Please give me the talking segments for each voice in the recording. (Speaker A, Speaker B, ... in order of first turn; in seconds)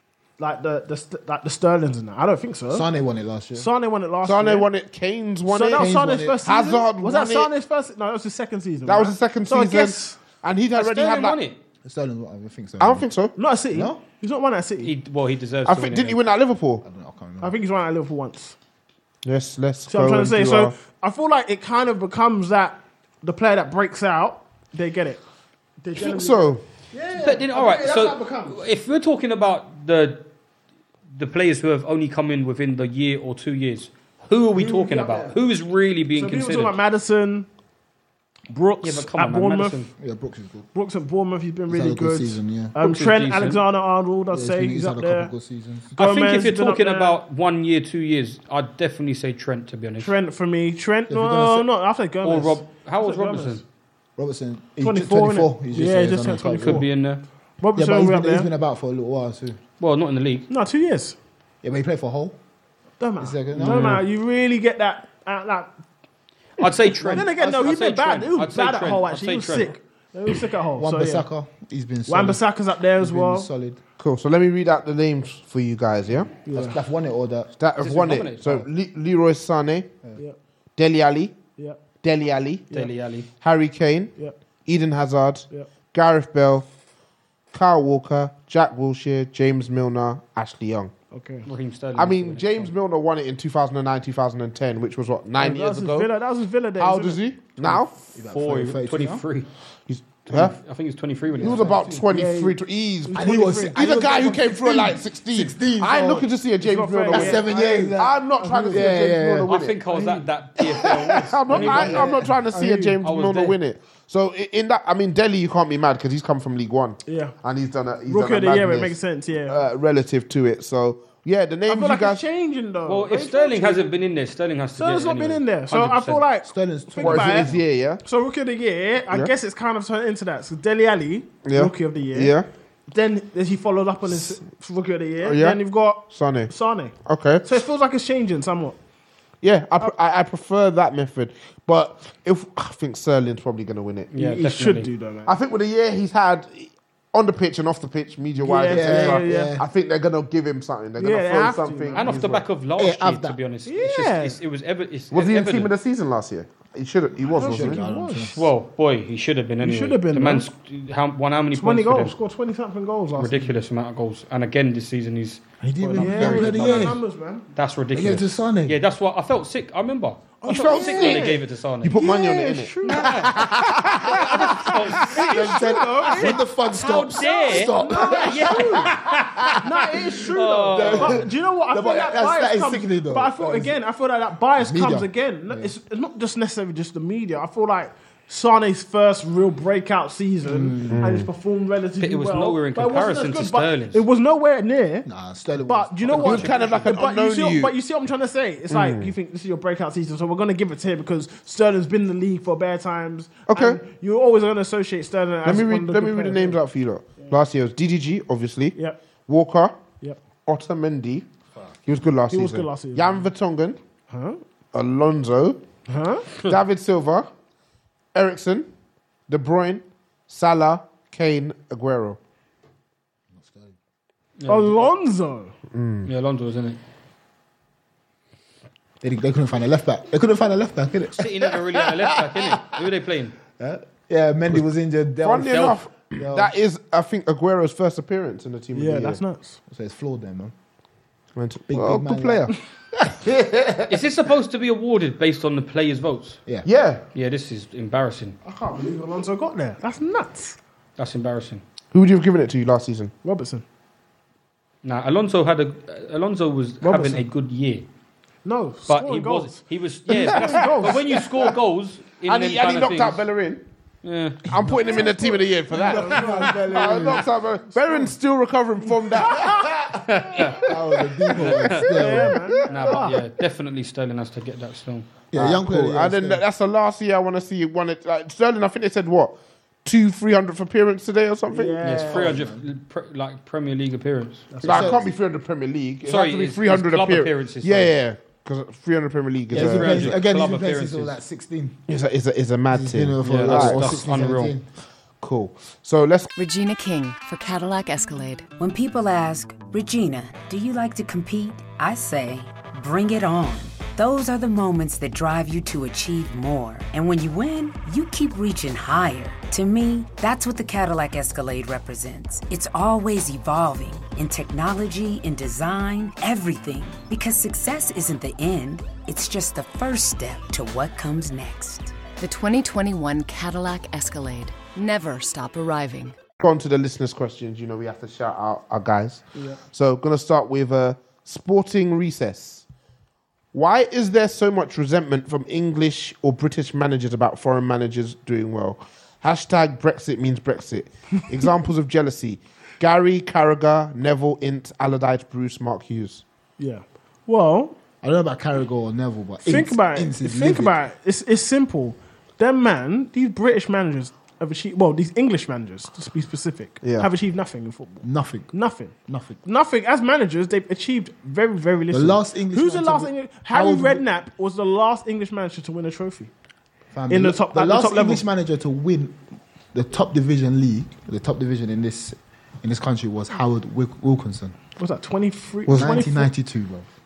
Speaker A: 0.4-2.9, 3.5-4.7, 5.5-10.2, 13.4-14.9, 17.4-18.6, 19.9-25.2, 25.8-28.6, 34.5-35.4, 36.1-37.5, 38.5-39.9, 40.7-45.3, 46.0-47.2, 50.0-53.6, 54.8-56.9, 57.6-58.5, 60.5-61.2, 63.0-65.7, 67.1-71.3, 72.1-73.5, 76.5-76.8, 91.1-91.5, 95.4-97.2, 101.9-104.4, 106.6-109.0, 111.5-113.0, 117.1-117.3, 118.1-119.6, 121.7-123.9, 124.8-127.5, 128.0-132.3, 132.9-138.8, 144.1-145.3, 148.4-149.6, 151.0-152.1, 153.7-154.4, 157.4-158.3, 159.6-160.5, 161.5-163.5, 165.8-167.5, 170.4-171.4, 172.0-176.4, 177.2-178.9, 179.6-195.1, 195.6-206.6, 212.3-213.2, 214.1-214.4, 215.9-216.3, 224.5-225.5, 238.7-239.6, 248.4-250.6, 253.2-253.6, 256.8-257.2, 258.4-261.1, 265.0-268.1, 269.3-269.6, 271.9-273.2, 281.5-282.4, 284.5-285.0, 329.4-329.6, 346.6-347.8, 349.4-366.3, 367.1-368.2, 374.8-376.3
Speaker B: 2.7-3.7, 5.7-6.4, 11.8-13.1, 13.7-14.0, 16.8-17.6, 40.0-40.7, 41.7-42.8, 44.3-45.9, 51.1-51.7, 54.2-56.9, 57.8-59.6, 61.6-62.4, 63.2-64.0, 67.1-67.3, 70.8-72.4, 73.0-73.8, 76.5-77.5, 98.1-99.2, 101.4-102.1, 103.1-106.3, 107.1-109.5, 126.5-127.7, 148.7-149.7, 152.8-153.4, 157.2-158.5, 165.6-167.0, 167.9-168.8, 175.2-180.0, 180.7-183.8, 184.6-185.7, 190.4-191.0, 195.1-196.8, 223.3-223.8, 229.0-232.8, 233.6-236.5, 239.7-240.5, 241.7-242.5, 243.4-243.7, 264.5-267.3, 270.6-272.5, 275.3-276.4, 282.1-282.7, 284.6-285.0, 289.5-291.8, 292.7-294.7, 348.0-350.8, 358.0-358.5, 359.1-359.4, 361.9-364.1, 366.9-369.2, 369.7-374.6, 375.7-376.9
Speaker C: 4.2-7.5, 8.9-11.4, 12.8-13.3, 15.7-16.8, 19.2-20.7, 26.0-26.6, 74.0-76.3, 77.6-79.9, 80.8-81.4, 82.0-82.7, 83.4-84.2, 84.7-86.7, 87.5-90.9, 92.0-96.1, 96.8-97.9, 99.9-100.6, 101.4-122.2, 127.0-128.0, 131.4-132.5, 135.2-136.5, 137.1-137.5, 139.4-144.1, 145.3-152.4, 155.1-157.8, 170.5-176.1, 190.9-191.3, 196.1-197.8, 198.7-199.1, 203.5-203.8, 205.4-208.8, 209.3-209.8, 210.5-211.3, 211.9-213.8, 214.7-215.6, 216.4-217.3, 218.1-218.7, 219.3-222.2, 225.7-226.1, 235.2-239.2, 241.4-243.3, 246.6-247.0, 251.9-253.1, 260.1-261.5, 262.3-263.6, 264.5-270.7, 275.3-281.8, 284.6-290.2, 291.9-294.1, 295.2-296.3, 326.4-332.6, 333.5-346.2, 356.8-357.1, 375.7-376.0
Speaker D: 10.7-11.6, 14.8-16.2, 27.2-30.2, 31.1-36.8, 38.8-39.9, 42.8-43.6, 46.0-50.1, 52.2-53.6, 56.6-57.2, 59.8-60.5, 63.6-64.0, 66.6-69.7, 77.8-78.7, 82.7-83.3, 91.5-92.7, 98.3-99.5, 100.3-101.7, 109.5-112.3, 113.0-113.6, 122.9-126.2, 144.1-144.9, 151.9-155.7, 158.1-162.2, 163.2-165.4, 166.0-167.0, 167.5-172.0, 172.8-175.6, 176.1-179.6, 180.3-181.2, 192.0-194.0, 224.4-224.9, 226.1-226.8, 231.2-233.4, 235.5-235.8, 243.9-246.4, 247.2-248.4, 251.0-251.6, 254.8-257.9, 258.9-263.2, 264.0-264.4, 270.1-270.6, 271.3-271.9, 272.7-275.1, 281.8-284.5, 286.1-287.9, 289.5-291.2, 293.2-294.6
Speaker E: 296.4-298.5, 322.2-326.2
Speaker F: 298.6-322.0